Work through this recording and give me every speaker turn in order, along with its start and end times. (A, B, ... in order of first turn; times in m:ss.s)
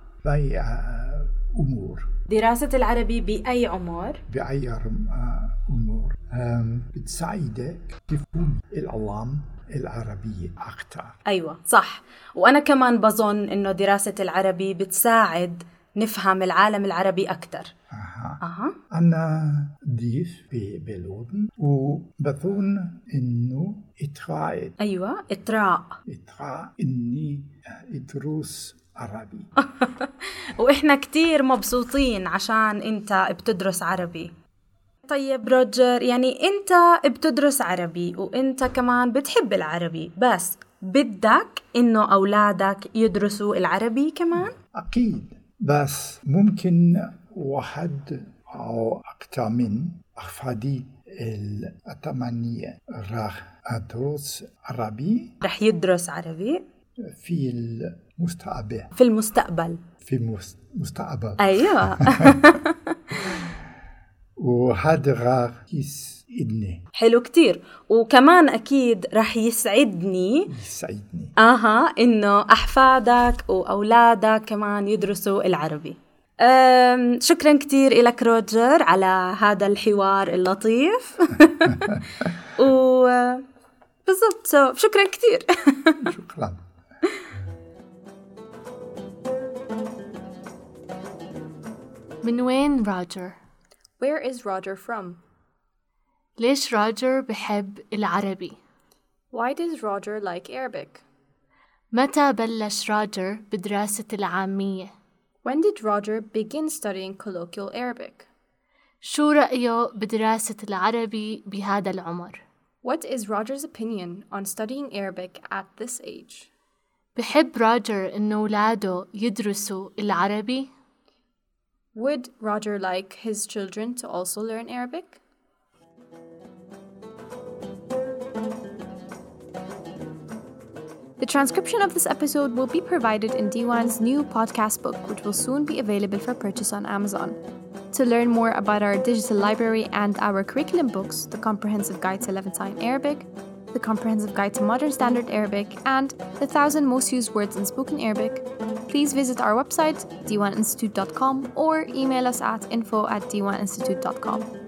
0:00.2-0:02.1 A
0:02.3-0:04.2 B
0:04.3-0:11.2 A
0:11.2-0:17.7 B
0:17.9-0:24.7 A
0:18.4-0:18.7 B
0:24.8-0:26.0 B
0:26.1-0:29.5 A
0:29.7-0:34.3 B
0:35.1-0:44.5 B
0:44.6-0:55.4 A
0:55.4-0:56.6 B
0:57.1-0:58.9 A
0:59.0-0:59.8 B
1:00.0-1:02.4 A
1:01.4-1:03.1 B
1:04.4-1:06.8 A
1:07.0-1:10.5 B
1:10.5-1:11.3 A
1:11.4-1:21.9 B
1:22.6-1:23.4 B
1:24.0-1:26.1 B
1:26.0-1:26.6 A
1:32.2-1:33.4 C
1:34.0-1:35.2 D
1:36.4-1:38.6 C
1:39.3-1:41.0 D
1:41.9-1:44.9 C
1:45.4-1:48.3 D
1:49.0-1:52.4 C
1:52.8-1:56.5 D
1:57.1-2:00.7 C
2:01.9-2:05.2 D
2:11.2-2:17.4 D
2:17.9-2:34.5 D